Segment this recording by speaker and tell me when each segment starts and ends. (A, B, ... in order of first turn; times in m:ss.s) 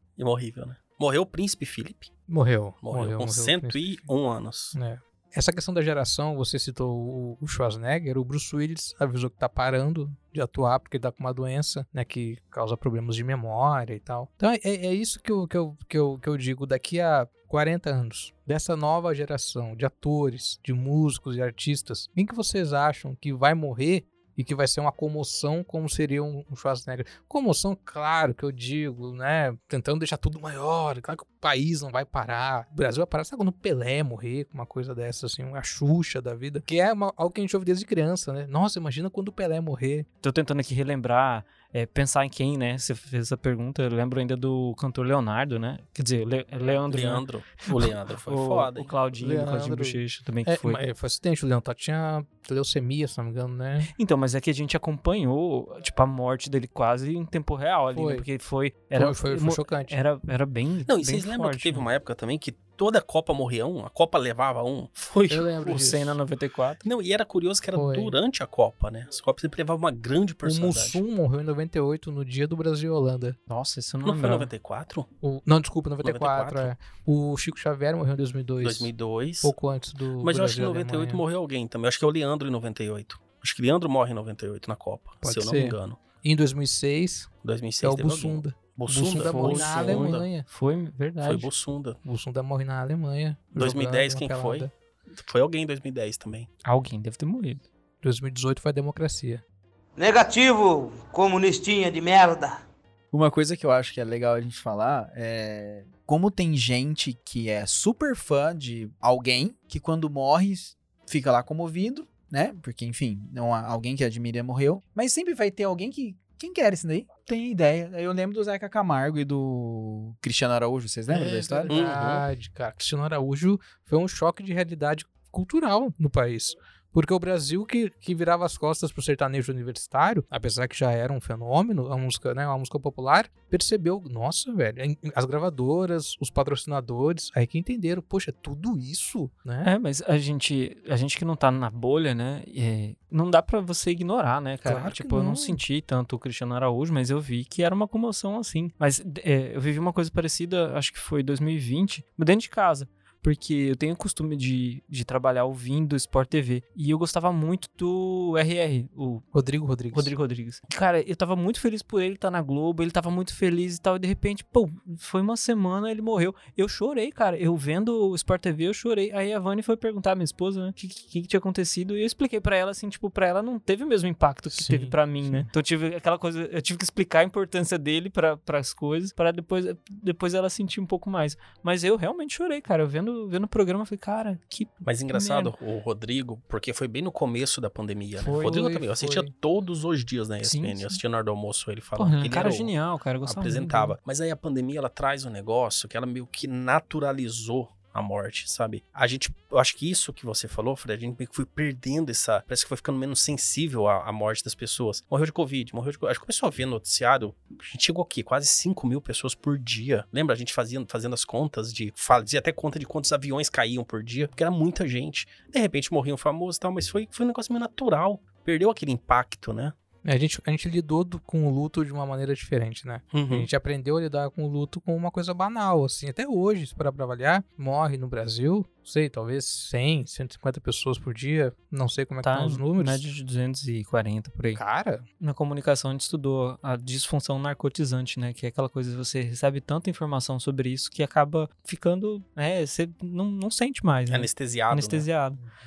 0:00.2-0:02.1 A
0:02.3-0:03.8 B
0:02.8-0:04.8 A
0:04.7-0:40.1 B
0:40.2-0:50.8 C
0:46.9-0:48.9 A
0:49.2-0:53.9 B
0:53.9-1:01.9 C
0:57.9-0:58.2 B
0:59.0-1:00.0 B
1:00.9-1:05.9 A
1:05.3-1:06.2 B
1:05.7-1:06.8 C
1:06.8-1:11.0 A
1:07.7-1:08.1 B
1:10.4-1:13.4 B
1:13.5-1:14.5 C
1:14.0-1:15.1 A
1:15.2-1:18.9 B
1:16.0-1:16.7 A
1:18.6-1:19.5 A
1:19.4-1:21.2 B
1:20.2-1:26.0 A
1:25.2-1:27.3 B
1:27.4-1:30.3 A
1:27.8-1:30.5 B
1:29.1-1:31.5 C
1:31.2-1:32.0 A
1:32.0-1:34.7 B
1:33.6-1:36.5 A
1:36.6-1:37.6 C
1:38.0-1:39.4 B
1:40.0-1:42.6 D
1:43.1-2:01.8 E
2:01.1-2:19.7 B
2:01.7-2:02.2 A
2:19.6-2:39.3 C
2:24.6-2:25.6 B
2:39.3-2:40.1 B
2:39.9-3:05.5 C
2:54.5-2:55.5 B
3:04.8-3:12.7 A
3:08.2-3:08.7 C
3:08.3-3:09.3 B
3:10.4-3:11.0 C
3:12.0-3:13.9 C
3:13.2-3:39.8 A
3:40.0-3:53.0 B
3:43.1-3:43.5 A
3:52.2-3:54.6 C
3:54.5-3:55.0 B
3:55.2-4:05.4 C
4:04.1-4:05.1 A